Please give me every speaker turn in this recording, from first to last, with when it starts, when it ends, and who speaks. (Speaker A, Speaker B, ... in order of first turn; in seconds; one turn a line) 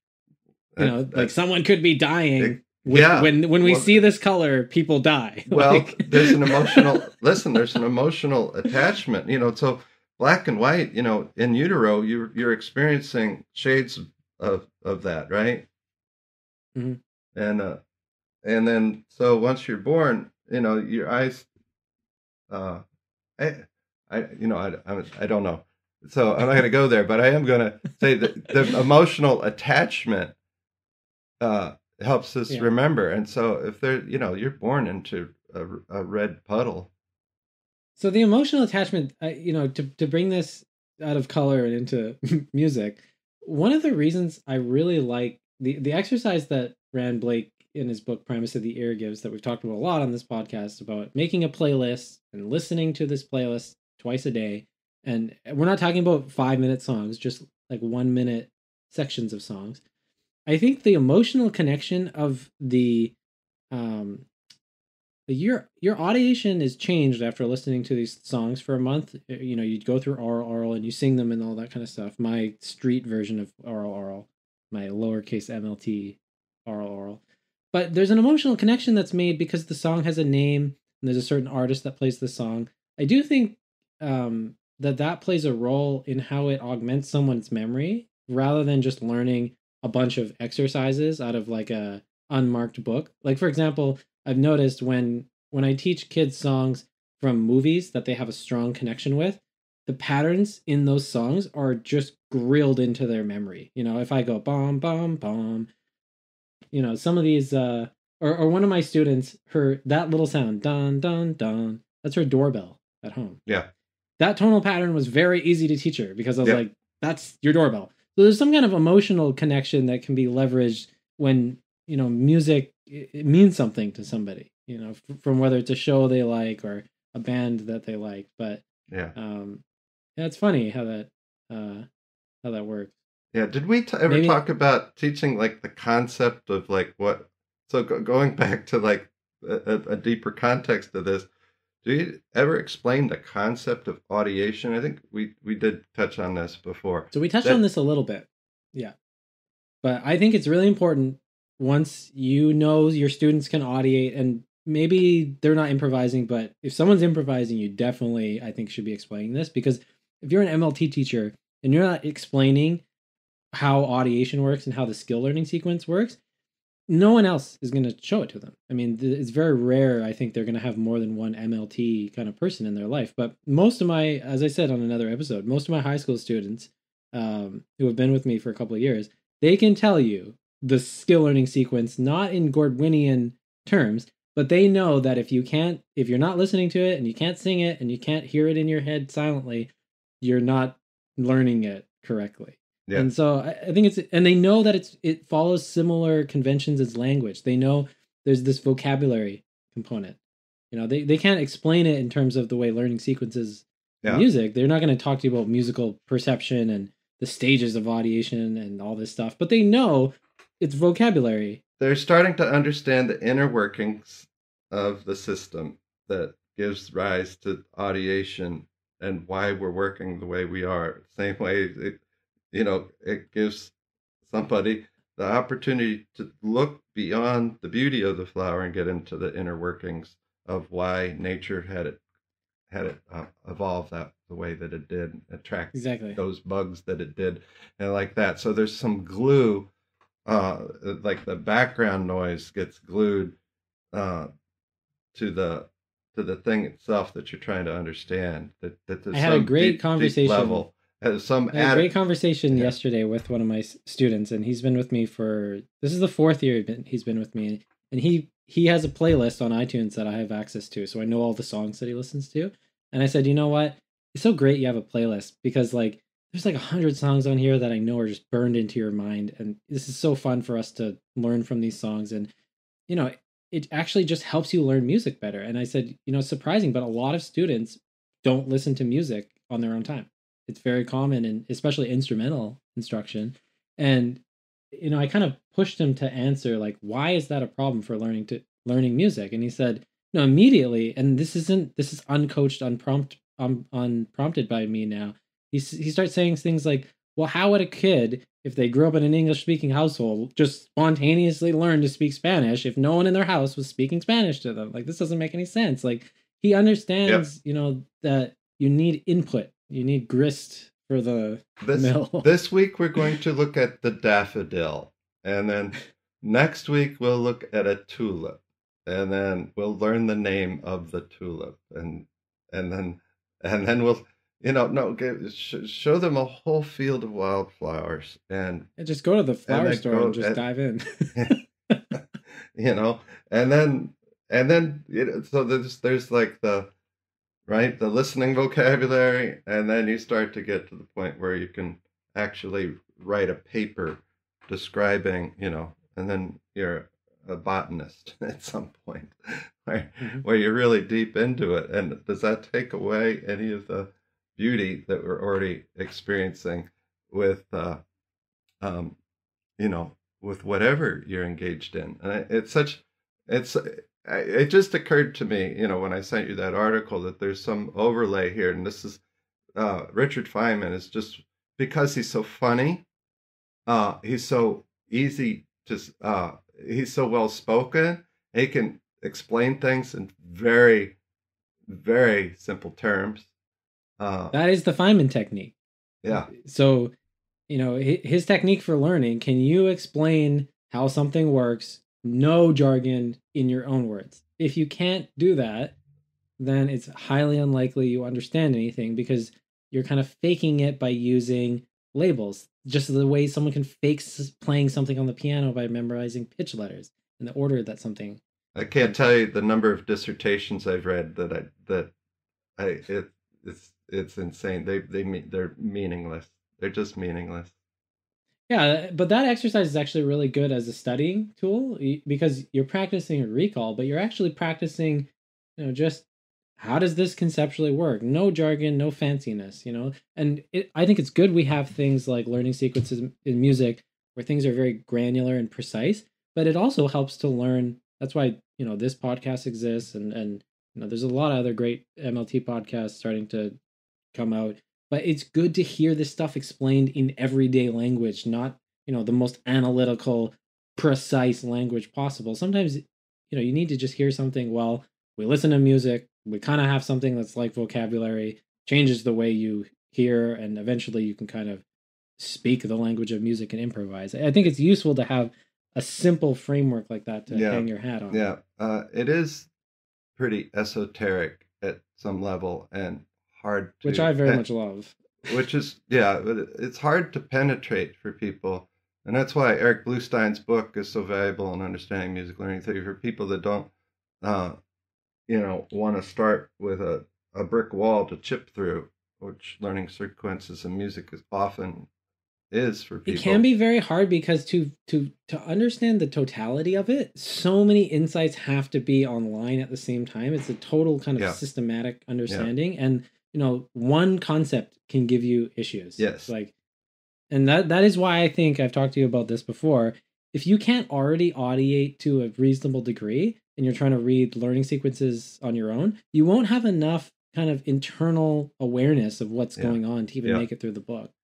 Speaker A: 0.7-1.3
Speaker B: 0.8-7.1
Speaker A: 2.4-4.0
Speaker A: 5.5-15.7
Speaker A: 17.4-17.8
Speaker A: 18.4-21.5
Speaker A: 22.5-22.8
Speaker A: 23.4-30.4
Speaker A: 31.4-36.9
Speaker B: 38.0-59.8
Speaker B: 60.5-63.1
Speaker B: 63.7-64.3
Speaker B: 65.3-77.2
Speaker B: 77.7-105.7
Speaker B: 106.7-113.4
Speaker B: 114.2-128.6
Speaker A: 128.9-129.2
Speaker B: 129.2-129.6
Speaker B: 130.2-131.9
Speaker B: 132.4-132.9
Speaker A: 133.3-141.3
Speaker B: 134.1-134.4
Speaker A: 141.8-147.6
Speaker B: 147.1-148.9
Speaker B: 149.8-162.8
Speaker B: 163.5-166.2
Speaker B: 166.9-200.2
Speaker B: 200.7-211.6
Speaker A: 211.8-222.0
Speaker A: 222.5-223.7
Speaker A: 224.3-232.0
Speaker A: 232.7-239.7
Speaker B: 235.7-236.2
Speaker A: 240.3-243.4
Speaker A: 243.9-244.3
Speaker A: 245.1-251.9
Speaker B: 249.1-250.6
Speaker B: 251.5-272.3
Speaker B: 272.9-284.2
Speaker B: 284.7-312.3
Speaker A: 311.6-328.7
Speaker B: 328.8-331.8
Speaker A: 329.5-330.4
Speaker A: 332.6-336.7
Speaker A: 337.5-357.8
Speaker A: 358.6-359.0
Speaker A: 359.6-369.0
Speaker A: 369.6-372.9
Speaker A: 373.7-381.0
Speaker A: 381.7-383.3
Speaker A: 384.0-384.4
Speaker B: 384.3-385.6
Speaker A: 386.0-386.3
Speaker B: 386.1-386.9
Speaker B: 387.5-395.8
Speaker B: 396.4-408.2
Speaker A: 408.6-411.9
Speaker B: 408.8-409.0
Speaker A: 412.6-417.5
Speaker B: 418.5-426.1
Speaker B: 426.6-443.6
Speaker B: 444.1-461.6
Speaker B: 462.2-468.2
Speaker A: 467.3-469.5
Speaker A: 470.2-474.4
Speaker B: 473.8-475.3
Speaker A: 475.3-483.7
Speaker A: 484.2-484.6
Speaker A: 485.3-491.9
Speaker A: 492.5-493.4
Speaker B: 493.1-506.5
Speaker A: 506.0-506.3
Speaker B: 507.3-521.1
Speaker A: 519.6-520.5